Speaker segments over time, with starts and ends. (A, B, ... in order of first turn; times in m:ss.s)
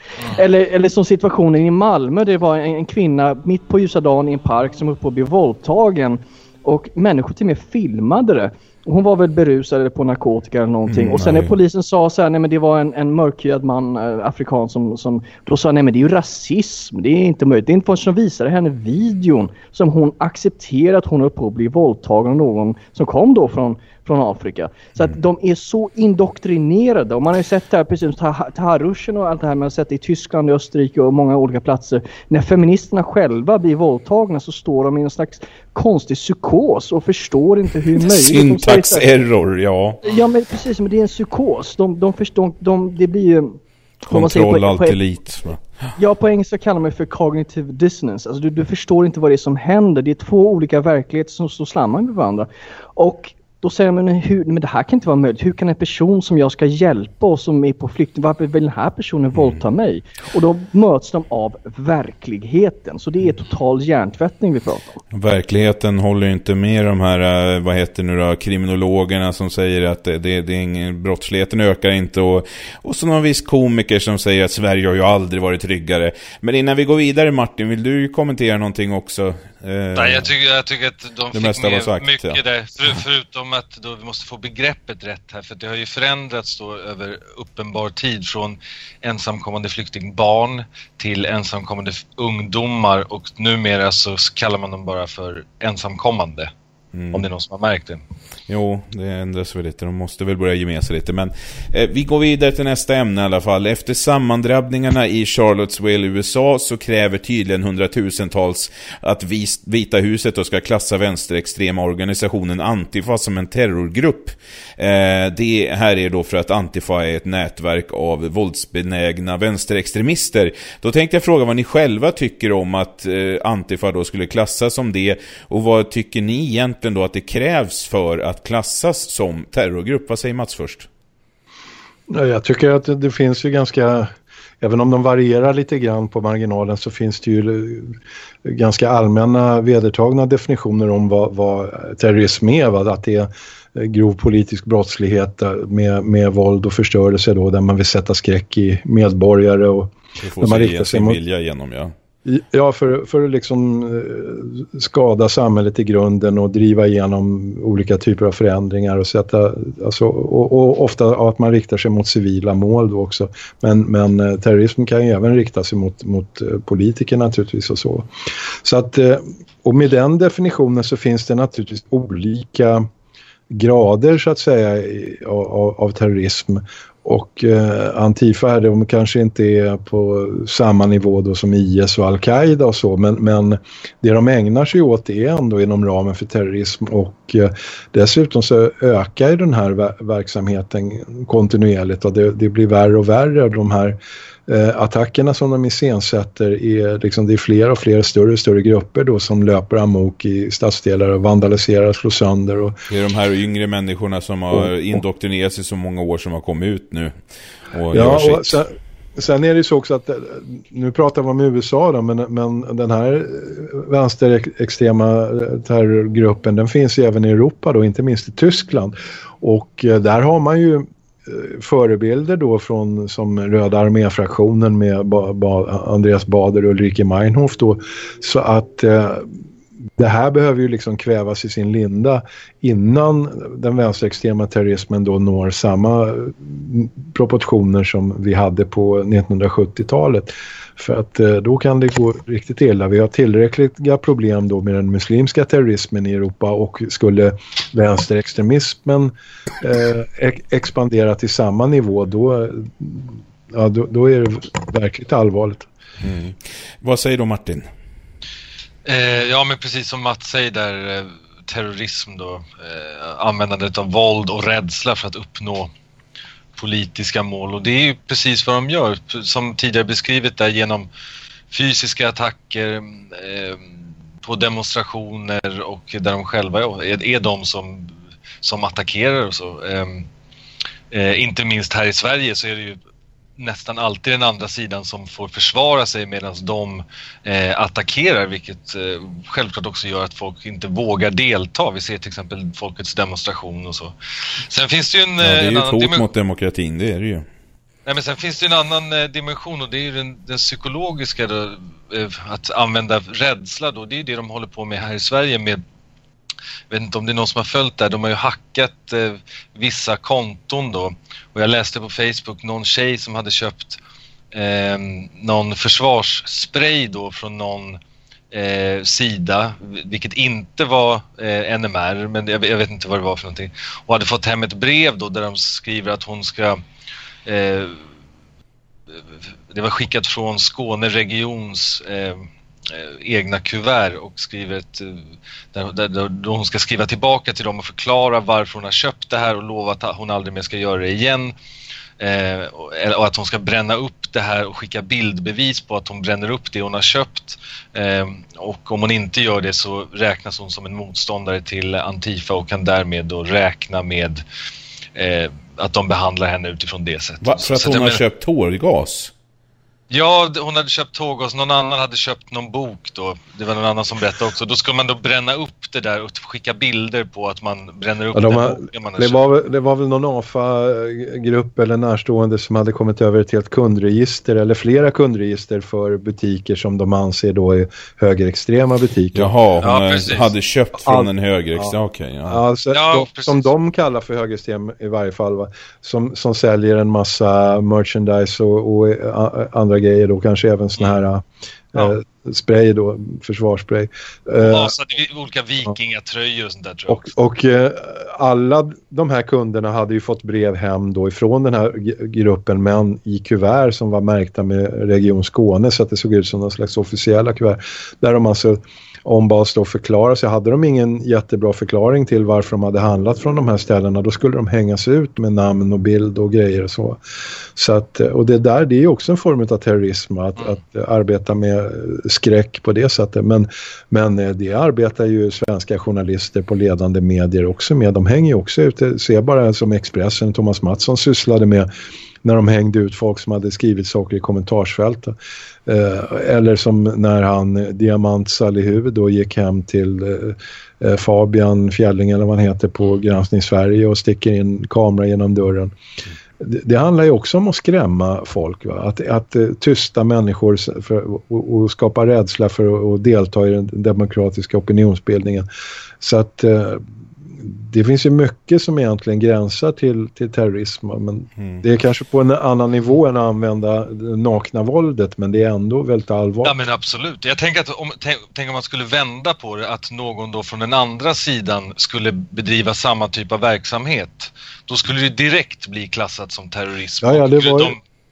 0:00.3-0:39.0 A
0:10.9-0:11.5 B
0:38.0-0:40.0 B
0:40.0-0:45.0 A
0:44.1-0:45.9 B
0:46.0-1:05.0 A
1:05.1-1:20.3 B
1:19.9-1:36.5 C
1:21.3-1:22.4 B
1:36.9-1:37.2 B
1:37.1-1:38.0 C
1:38.5-2:10.9 B
2:12.1-2:14.1 D
2:14.6-2:31.2 D
2:30.2-2:31.9 B
2:32.2-2:52.9 D
2:53.5-3:22.8 D
3:22.9-3:27.1 B
3:27.7-3:28.6 B
3:27.9-3:49.3 D
3:50.0-4:15.7 D
4:16.0-4:17.7 B
4:18.8-4:25.7 C
4:26.5-4:30.9 C
4:31.5-4:33.7 C
4:34.2-4:40.1 C
4:40.9-4:42.8 C
4:43.4-4:53.9 C
4:54.4-4:56.0 C
4:55.2-4:57.2 B
4:57.8-5:05.6 C
5:06.7-5:13.8 C
5:14.3-5:17.8 C
5:18.3-5:26.6 C
5:27.2-5:27.8 C
5:29.5-5:35.0 C
5:35.5-5:41.3 C
5:42.0-5:54.2 C
5:55.0-5:58.0 C
5:57.2-5:59.1 B
5:59.9-6:09.2 C
6:08.1-6:19.3 D
6:19.1-6:22.4 B
6:19.6-6:20.3 C
6:20.8-6:21.7 D
6:22.2-6:34.7 D
6:22.7-6:23.5 C
6:34.4-6:37.1 C
6:36.9-6:57.0 D
6:57.5-7:11.7 D
7:12.2-7:15.1 D
7:15.6-7:25.7 D
7:26.4-7:35.5 D
7:36.0-7:36.8 D
7:37.4-7:46.5 D
7:46.4-7:57.8 C
7:57.0-7:57.8 D